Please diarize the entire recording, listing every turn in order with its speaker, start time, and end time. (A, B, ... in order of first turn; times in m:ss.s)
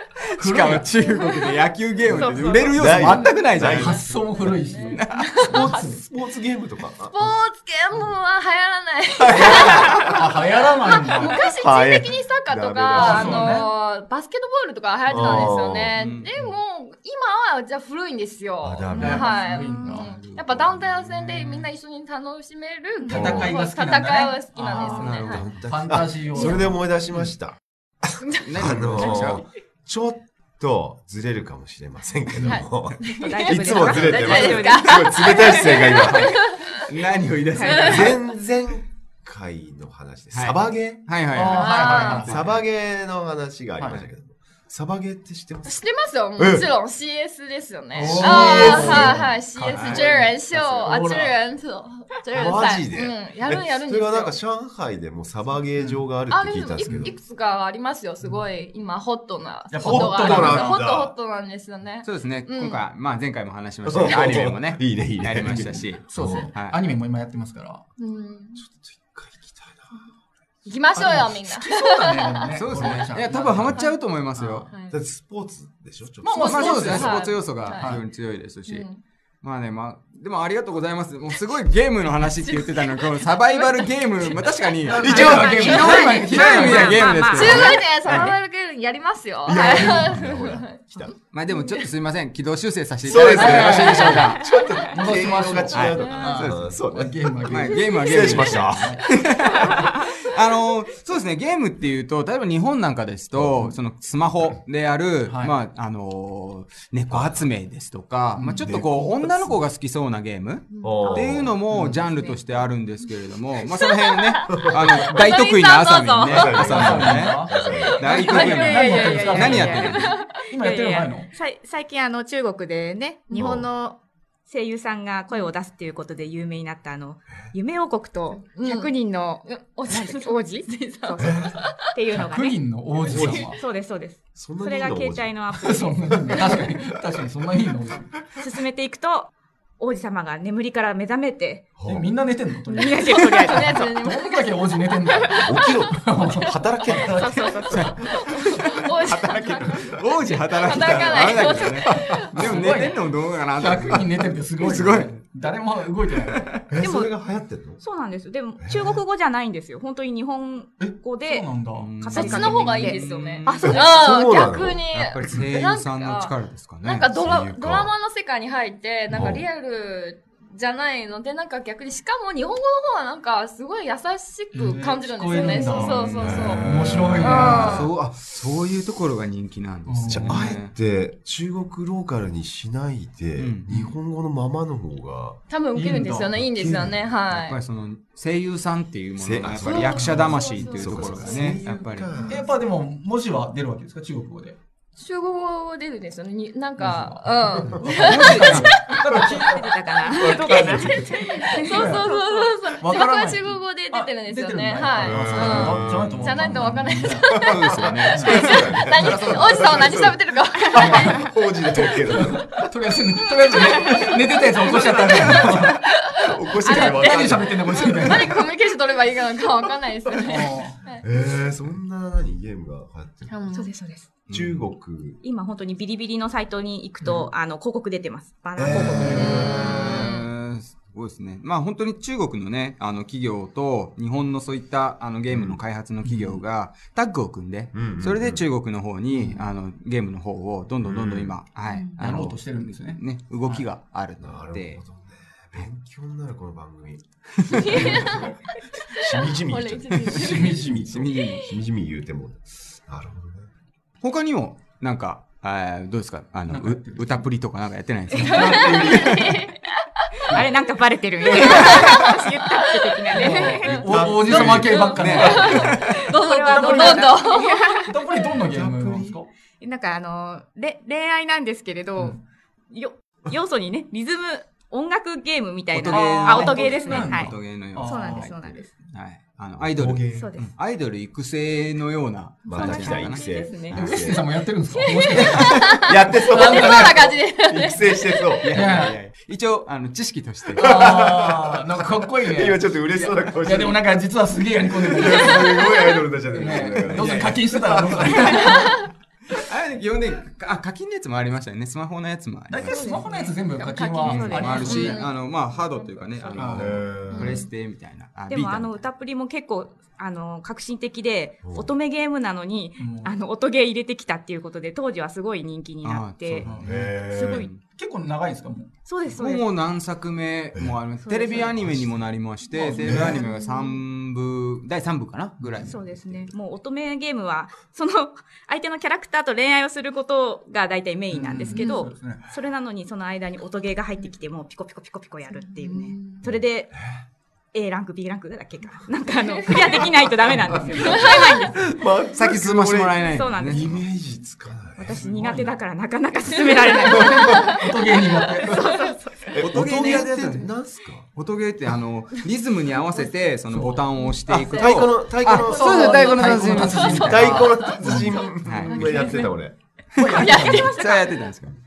0:00.4-0:00.9 A
0:00.4-0:04.1 B
0:01.0-0:01.5 C
0:02.1-0:02.8 D
0:02.7-0:04.1 E
0:03.7-0:06.0 A
0:04.3-0:05.9 C
0:04.9-0:05.3 B
0:05.5-0:07.3 E
0:07.1-0:10.2 C
0:09.2-0:10.3 E
0:09.3-0:11.4 A
0:10.8-0:25.4 C
0:11.5-0:13.6 E
0:12.9-0:13.7 A
0:15.1-0:15.9 E
0:16.0-0:16.5 B
0:18.6-0:19.2 E
0:18.9-0:20.0 D
0:18.9-0:20.1 A
0:19.9-0:21.5 B
0:23.0-0:25.1 A
0:23.1-0:23.5 E
0:24.8-0:25.5 B
0:25.2-0:36.4 E
0:25.6-0:26.8 A
0:28.2-0:29.2 C
0:28.4-0:29.4 B
0:32.4-0:36.8 C
0:33.2-0:34.9 D
0:33.9-0:34.4 B
0:35.5-0:36.3 D
0:36.7-0:38.2 B
0:37.6-0:37.9 D
0:37.6-0:38.1 C
0:37.7-0:41.1 E
0:40.3-0:42.6 B
0:41.3-0:42.4 A
0:41.5-0:42.3 C
0:42.2-0:45.8 E
0:43.8-0:44.1 A
0:45.6-0:54.3 C
0:46.4-0:46.7 E
0:47.9-0:49.3 E
0:47.9-0:51.4 A
0:48.6-0:49.0 B
0:49.7-0:50.0 B
0:52.3-0:57.1 E
0:55.8-0:56.0 A
0:56.3-1:02.8 C
0:56.8-0:57.1 A
0:59.7-1:00.8 A
0:59.8-1:01.1 E
1:02.0-1:06.8 B
1:03.8-1:06.5 E
1:05.9-1:07.8 A
1:08.0-1:08.6 C
1:08.6-1:10.1 E
1:10.6-1:12.3 C
1:10.9-1:13.8 A
1:12.6-1:14.7 B
1:12.7-1:13.0 E
1:14.4-1:14.7 A
1:14.7-1:15.0 C
1:14.9-1:17.3 E
1:16.2-1:18.0 A
1:16.4-1:17.9 C
1:16.4-1:18.9 B
1:18.7-1:19.0 C
1:19.4-1:28.3 B
1:22.2-1:24.5 C
1:24.8-1:27.2 A
1:25.0-1:25.9 E
1:25.3-1:27.8 D
1:25.8-1:31.8 C
1:28.0-1:28.4 E
1:29.4-1:31.1 E
1:31.3-1:34.4 B
1:33.0-1:39.9 E
1:33.1-1:39.0 A
1:33.7-1:34.2 C
1:35.7-1:36.7 B
1:35.9-1:36.4 C
1:37.5-1:57.4 B
1:43.3-1:43.7 E
1:45.2-1:45.6 A
1:47.1-1:47.5 E
1:48.3-1:48.9 A
1:48.6-1:49.6 E
1:50.7-1:51.4 D
1:50.8-1:51.7 E
1:51.7-1:52.0 A
1:52.0-1:52.6 D
1:53.7-1:54.6 C
1:54.5-1:55.0 E
1:55.0-1:56.4 D
1:56.2-1:58.1 E
1:56.6-1:57.6 A
1:57.5-2:00.4 C
1:58.0-2:00.0 B
1:58.1-2:16.6 D
1:58.2-2:01.3 A
2:03.3-2:03.7 E
2:08.4-2:08.9 C
2:09.4-2:11.9 C
2:11.2-2:11.6 E
2:12.1-2:13.6 A
2:13.0-2:13.4 E
2:14.3-2:15.3 E
2:15.5-2:18.1 A
2:16.3-2:16.8 E
2:18.4-2:21.7 D
2:21.8-2:22.1 E
2:21.8-2:27.5 A
2:22.6-2:23.9 D
2:23.4-2:24.7 C
2:25.3-2:25.8 D
2:25.4-2:28.1 E
2:26.9-2:28.5 D
2:27.7-2:35.2 B
2:27.9-2:29.9 C
2:29.6-2:29.9 E
2:30.5-2:32.7 C
2:30.9-2:31.3 E
2:30.9-2:31.2 A
2:32.3-2:33.0 A
2:33.5-2:36.5 A
2:36.3-2:36.7 B
2:36.7-2:37.8 E
2:36.7-2:37.1 D
2:37.8-2:44.1 D
2:38.6-2:39.0 E
2:40.8-2:42.0 A
2:41.7-2:43.7 B
2:42.1-2:57.9 C
2:43.6-2:44.8 E
2:44.9-2:47.1 B
2:47.2-2:47.9 E
2:49.1-2:49.4 E
2:54.5-2:57.9 A
2:55.4-3:00.7 B
2:55.8-2:57.9 E
2:59.8-3:00.4 A
3:00.1-3:05.4 E
3:03.4-3:03.7 B
3:05.5-3:07.6 C
3:05.7-3:06.4 A
3:06.4-3:07.0 E
3:07.3-3:12.3 B
3:09.2-3:12.4 E
3:09.6-3:11.6 C
3:09.9-3:11.5 A
3:12.3-3:14.6 A
3:15.0-3:19.2 C
3:16.8-3:19.6 A
3:17.8-3:18.7 B
3:19.1-3:22.7 D
3:20.2-3:21.0 E
3:20.2-3:27.7 C
3:21.6-3:22.1 A
3:22.8-3:27.3 A
3:25.0-3:26.2 E
3:25.8-3:26.2 B
3:27.3-3:30.2 E
3:27.5-3:29.8 B
3:28.1-3:28.5 A
3:28.2-3:31.2 C
3:29.1-3:29.4 A
3:30.7-3:31.3 A
3:30.7-3:32.7 E
3:31.8-3:35.8 A
3:33.5-3:41.0 C
3:34.8-3:35.5 E
3:36.2-3:38.1 E
3:36.5-3:38.5 A
3:40.2-3:40.8 A
3:41.0-3:43.4 E
3:43.5-3:44.1 D
3:44.3-3:44.6 B
3:44.3-3:45.2 E
3:45.2-3:50.2 D
3:47.0-3:47.3 A
3:48.6-3:49.8 E
3:48.9-3:49.3 A
3:49.2-3:50.2 C
3:49.2-4:04.8 B
3:55.3-3:55.6 E
3:56.0-3:56.4 A
3:57.7-3:58.4 E
4:00.8-4:01.3 E
4:01.7-4:02.0 D
4:02.0-4:03.7 A
4:04.2-4:07.0 E
4:07.4-4:08.0 B
4:07.5-4:10.5 C
4:07.7-4:08.3 E
4:09.0-4:13.5 E
4:10.0-4:11.5 B
4:10.2-4:11.1 A
4:11.2-4:11.5 C
4:14.0-4:19.4 B
4:16.5-4:17.3 A
4:18.1-4:20.4 C
4:18.2-4:19.1 E
4:20.3-4:23.8 D
4:21.3-4:22.0 B
4:21.4-4:27.8 C
4:23.1-4:27.1 A
4:23.7-4:25.8 B
4:23.8-4:25.6 E
4:25.9-4:28.0 D
4:27.8-4:29.3 A
4:28.4-4:29.2 E
4:29.6-4:38.7 D
4:35.7-4:43.4 B
4:35.9-4:38.4 A
4:39.6-4:40.3 E
4:40.1-4:40.5 D
4:42.4-4:44.2 E
4:42.5-4:43.8 C
4:43.7-4:47.1 A
4:44.7-4:48.5 C
4:45.3-4:48.6 E
4:48.4-4:50.8 B
4:48.5-4:49.0 A
4:50.5-4:52.6 A
4:50.6-4:54.0 E
4:52.9-4:53.3 B
4:53.4-4:58.8 A
4:54.7-4:58.3 E
4:56.4-4:58.3 B
4:59.4-5:03.1 B
5:02.5-5:05.1 A
5:02.6-5:03.1 D
5:03.1-5:06.6 C
5:04.0-5:05.0 D
5:04.0-5:08.8 B
5:06.3-5:06.8 A
5:06.4-5:07.5 E
5:07.1-5:07.4 D
5:08.3-5:16.4 D
5:11.4-5:11.7 E
5:12.8-5:13.2 A
5:15.8-5:17.6 B
5:16.4-5:16.9 A
5:16.4-5:17.5 E
5:17.0-5:17.5 D
5:17.7-5:18.7 A
5:18.8-5:19.5 D
5:19.2-5:26.3 B
5:20.6-5:20.8 E
5:21.0-5:21.6 D
5:21.3-5:22.1 E
5:22.5-5:23.2 A
5:22.8-5:23.2 E
5:23.0-5:23.8 D
5:25.4-5:25.7 A
5:25.6-5:36.7 D
5:31.1-5:32.3 A
5:35.6-5:36.2 C
5:36.3-5:37.0 E
5:37.5-5:41.6 D
5:40.3-5:45.4 E
5:40.7-5:41.2 C
5:42.1-5:43.8 B
5:43.0-5:43.7 D
5:44.8-5:49.3 D
5:45.2-5:45.5 A
5:46.4-5:47.6 C
5:46.9-5:48.6 A
5:49.3-5:51.1 E
5:49.3-5:50.5 B
5:51.1-5:57.7 B
5:53.5-5:54.0 A
5:54.3-5:59.5 E
5:54.4-5:54.9 C
5:55.3-5:58.2 A
5:56.5-5:59.3 C
5:58.4-5:59.2 B
6:00.0-6:01.6 B
6:00.0-6:00.7 A
6:00.2-6:01.2 C